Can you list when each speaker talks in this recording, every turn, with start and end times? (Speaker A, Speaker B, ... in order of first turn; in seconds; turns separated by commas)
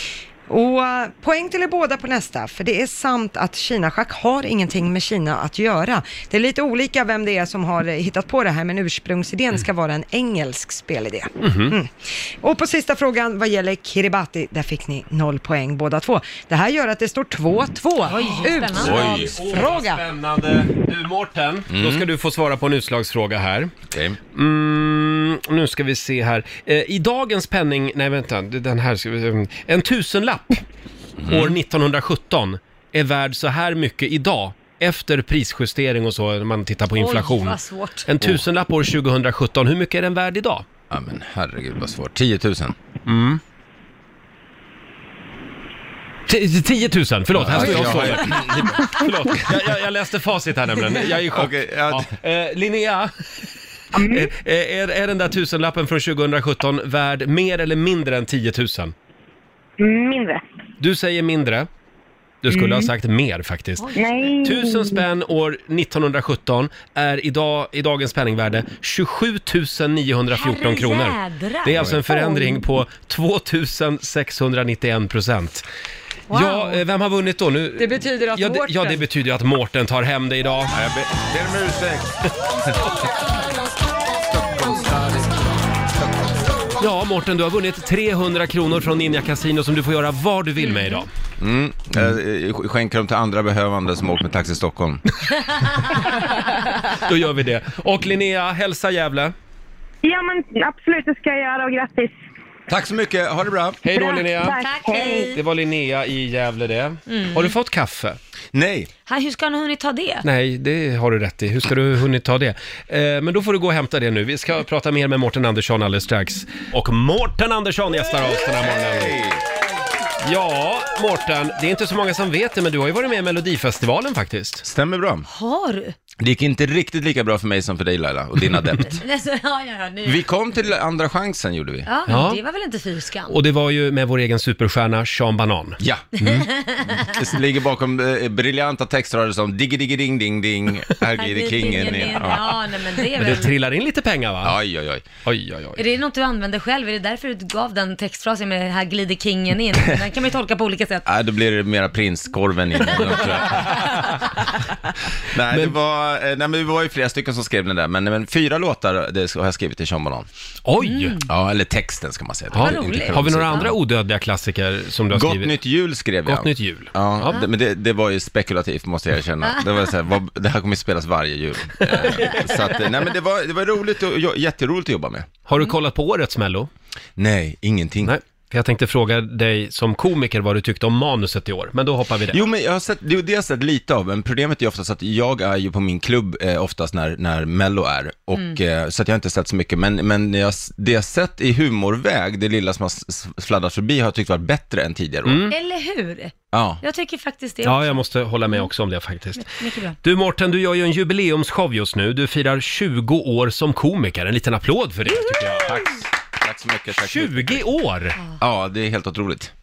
Speaker A: 0.5-20.0, Speaker B: 11.4-11.8, Speaker C: 18.1-19.3, Speaker B: 18.7-23.7, Speaker D: 18.8-19.3, Speaker D: 21.7-22.1, Speaker D: 23.9-24.2, Speaker B: 24.3-30.6, Speaker D: 31.2-31.6, Speaker B: 31.3-40.7, Speaker C: 37.0-38.1, Speaker D: 40.9-42.8, Speaker B: 43.1-43.4, Speaker B: 46.3-53.1, Speaker D: 47.3-49.6, Speaker D: 51.3-52.1, Speaker B: 54.1-58.9, Speaker E: 59.8-60.4, Speaker B: 60.8-61.7, Speaker B: 62.4-63.9, Speaker E: 62.5-62.9, Speaker C: 63.8-64.3, Speaker E: 64.0-64.9, Speaker B: 64.4-75.7, Speaker C: 70.3-72.4, Speaker B: 76.3-80.8, Speaker C: 76.3-76.7, Speaker A: 77.8-79.0, Speaker D: 80.7-82.2, Speaker D: 84.3-85.4, Speaker B: 86.8-91.1, Speaker C: 90.7-91.0, Speaker D: 91.4-95.0, Speaker B: 96.2-99.3, Speaker E: 100.0-102.2, Speaker D: 102.7-103.8, Speaker B: 103.8-104.6, Speaker E: 103.9-105.3, Speaker C: 104.6-105.4, Speaker B: 105.3-108.2, Speaker C: 107.1-107.5, Speaker D: 108.5-108.9, Speaker C: 109.1-110.2, Speaker B: 110.2-119.2, Speaker D: 118.5-119.4, Speaker B: 120.2-124.6, Speaker D: 124.6-125.3, Speaker C: 125.3-126.0, Speaker D: 126.2-129.0, Speaker C: 128.9-130.2, Speaker D: 130.0-131.9, Speaker C: 131.8-133.3, Speaker B: 132.1-132.4, Speaker B: 133.3-136.5, Speaker D: 135.8-136.3, Speaker C: 136.3-137.1, Speaker D: 137.0-142.6, Speaker C: 141.1-143.5, Speaker B: 143.2-144.6, Speaker D: 144.4-145.1, Speaker B: 145.2-145.8, Speaker C: 145.8-151.0, Speaker D: 151.1-154.0, Speaker B: 153.5-153.9, Speaker D: 155.3-160.3, Speaker B: 155.5-155.8, Speaker B: 160.7-161.2, Speaker C: 160.8-161.2, Speaker D: 161.3-163.7, Speaker B: 162.5-165.6, Speaker C: 162.6-163.7, Speaker D: 165.1-175.3, Speaker B: 166.2-167.4, Speaker B: 171.8-172.4, Speaker B: 175.5-176.7, Speaker D: 177.2-178.2, Speaker B: 178.0-182.4, Speaker D: 182.3-195.4, Speaker B: 195.3-195.5, Speaker C: 195.5-198.0, Speaker D: 196.5-196.8, Speaker B: 197.6-205.8, Speaker C: 199.4-199.9, Speaker D: 205.6-207.7, Speaker B: 206.9-208.2, Speaker D: 208.4-209.5